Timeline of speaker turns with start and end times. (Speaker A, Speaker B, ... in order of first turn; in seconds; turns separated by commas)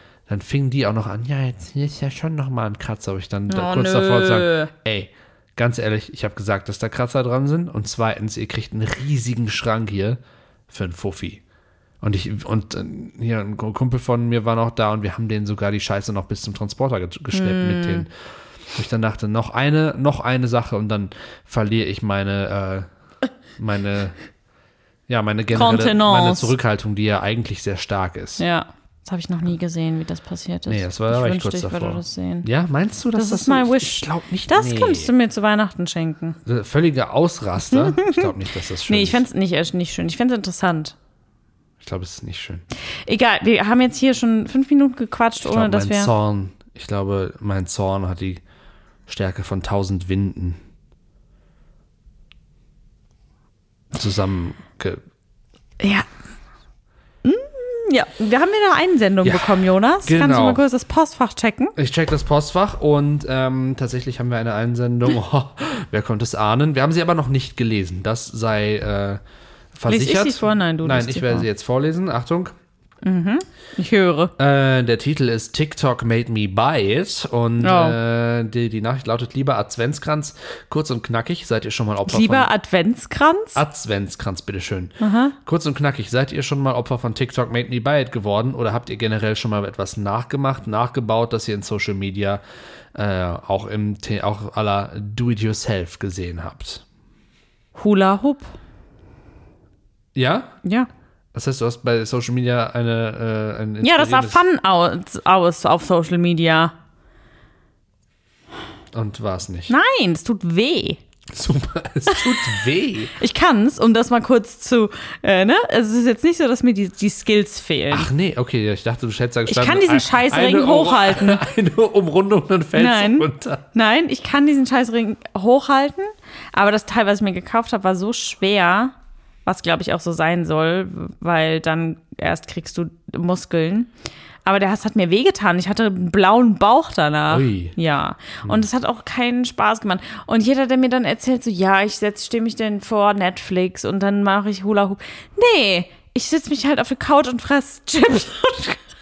Speaker A: 0.3-11.4, Speaker B: 3.5-4.7, Speaker A: 12.0-22.9, Speaker B: 17.3-18.1, Speaker A: 23.6-24.2, Speaker A: 25.1-28.4, Speaker B: 25.5-26.6, Speaker B: 28.4-32.5, Speaker A: 30.7-35.1, Speaker B: 33.1-36.4, Speaker A: 36.5-39.2, Speaker B: 37.7-38.3, Speaker B: 38.9-41.0, Speaker A: 41.8-42.7, Speaker B: 43.1-46.1, Speaker A: 45.4-48.4, Speaker A: 49.1-50.6, Speaker A: 53.9-55.0, Speaker B: 55.8-56.1, Speaker B: 57.2-61.8, Speaker A: 59.2-60.6, Speaker A: 61.8-69.2, Speaker A: 69.8-72.5, Speaker B: 69.9-71.5, Speaker B: 73.0-74.3, Speaker A: 74.4-82.5, Speaker B: 77.6-78.0, Speaker B: 82.1-83.6, Speaker A: 83.5-92.4, Speaker B: 85.0-85.4, Speaker A: 93.0-96.8, Speaker B: 97.8-98.5, Speaker A: 100.2-100.6, Speaker B: 100.6-100.9, Speaker A: 101.3-104.4, Speaker B: 103.8-106.7, Speaker A: 108.9-109.7, Speaker B: 109.7-111.0, Speaker A: 111.3-113.2, Speaker B: 112.1-112.5, Speaker B: 113.2-118.1, Speaker A: 117.9-123.6, Speaker B: 119.5-121.4, Speaker B: 122.8-133.9, Speaker B: 134.4-148.8, Speaker A: 137.3-137.8